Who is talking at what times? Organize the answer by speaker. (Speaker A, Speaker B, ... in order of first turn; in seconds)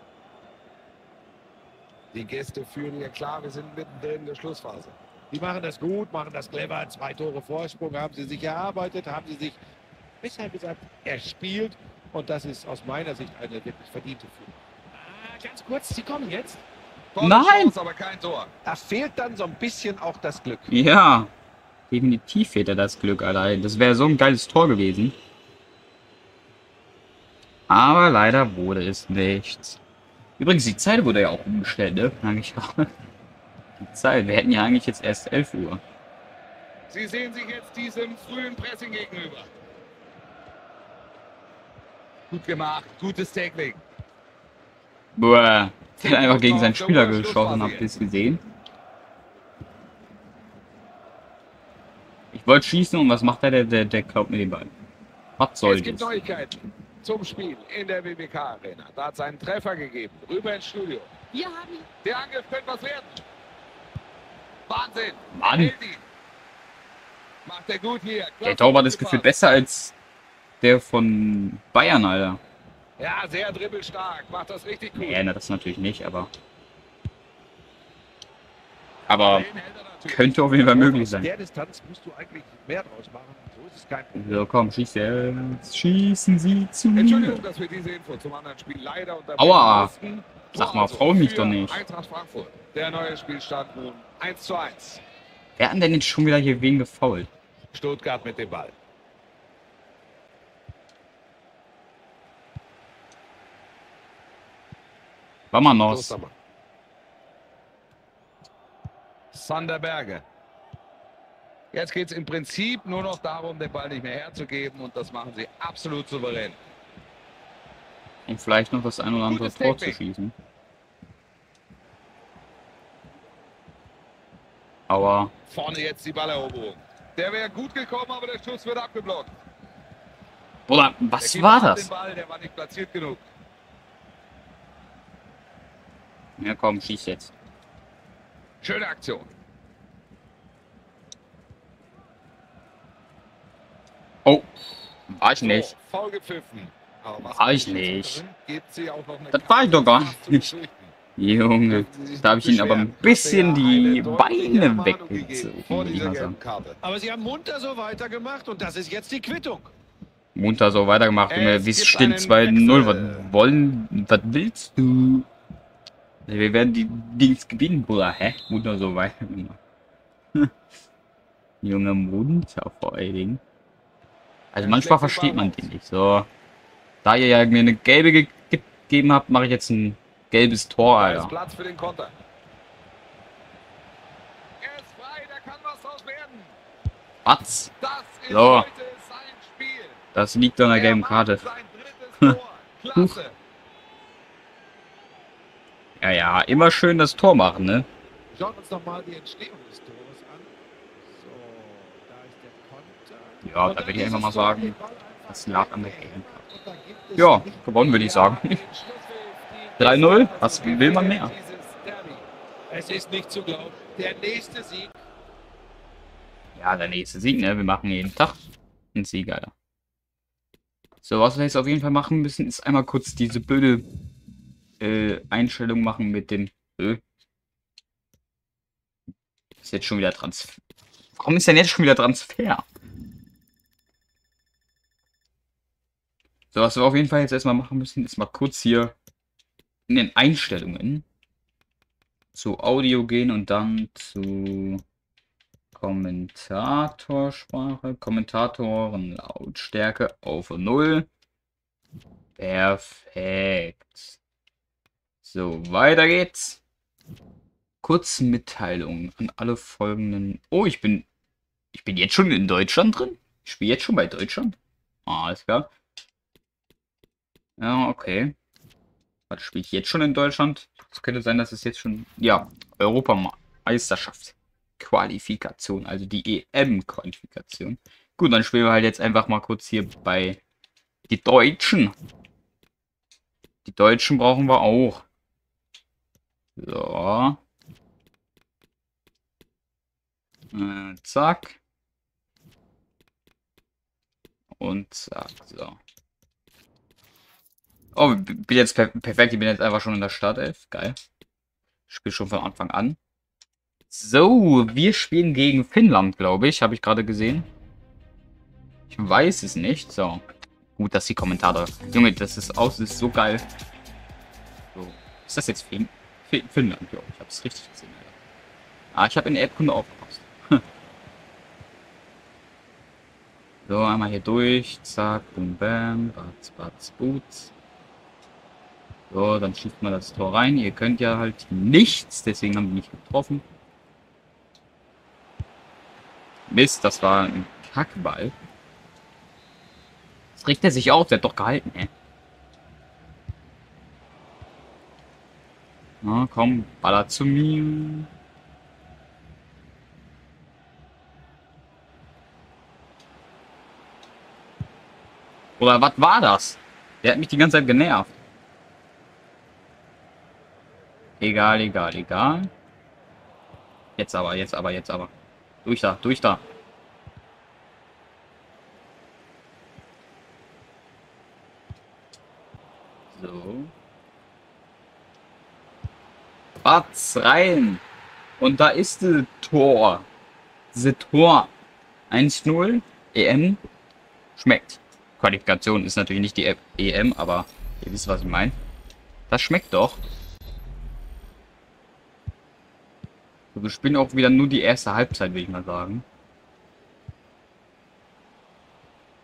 Speaker A: 2.1-5.0, 17.1-18.5, 36.9-39.5, 42.3-43.8, 46.0-47.9, 55.6-61.2, 62.0-63.2, 64.7-66.0, 67.5-69.3, 73.0-75.2, 79.1-80.8, 86.9-95.0, 97.7-98.7, 105.8-106.3, 109.3-110.2, 111.7-116.6, 119.2-120.0, 125.5-129.3, 131.2-133.2, 138.6-139.3, 145.4-150.9, 151.7-156.8, 161.3-163.3, 174.6-175.7, 180.9-182.1, 184.6-186.6, 187.8-190.0, 190.7-193.4, 207.8-212.2
Speaker B: 5.3-9.6, 10.2-16.6, 18.6-20.8, 61.3-61.9, 80.7-84.4, 156.8-159.7, 198.3-207.8, 209.5-209.8, 212.7-214.9
Speaker C: 17.2-17.8, 20.7-21.3, 21.9-25.1, 27.7-29.8, 30.4-32.8, 33.8-35.8, 45.2-48.4, 52.3-54.7, 55.4-56.2, 65.3-65.7, 68.4-70.0, 70.6-72.4, 75.0-76.3, 79.1-79.5, 80.1-81.3, 84.1-87.5, 89.4-89.9, 90.5-91.8, 95.6-97.3, 105.5-106.2, 118.3-120.3, 124.9-125.3, 130.7-131.9, 136.4-137.3, 145.1-145.8, 147.2-148.2, 149.3-150.5, 151.2-156.4, 160.3-165.3, 166.3-169.6, 171.6-173.4, 174.5-176.3, 177.0-181.3, 187.2-187.7, 188.3-188.7, 190.1-191.4, 196.0-197.9, 203.4-204.8, 205.3-206.3, 207.2-208.5, 209.8-211.3, 216.6-218.4, 218.9-219.5, 221.0-223.8, 224.8-227.0, 229.6-230.6, 231.2-232.6, 236.5-238.9, 239.9-241.1, 242.3-244.8, 245.7-251.1, 252.4-254.2, 255.2-256.6, 257.8-261.1, 261.7-265.7, 267.6-268.4, 269.3-280.4, 281.1-281.9, 283.6-285.0, 286.6-287.4, 290.5-291.6, 294.6-295.8, 297.9-301.0, 301.9-303.0, 303.9-307.5, 308.9-310.2, 310.8-313.5, 314.7-318.1, 318.9-320.6, 323.7-327.5, 329.1-333.4, 336.5-338.3, 340.4-341.9, 346.0-348.1, 355.6-358.1, 361.2-362.5, 364.0-365.1, 365.6-366.4, 373.1-373.7, 376.6-377.8, 378.4-380.1, 380.7-381.5, 382.1-383.6, 384.4-388.6, 389.3-390.0, 393.5-396.1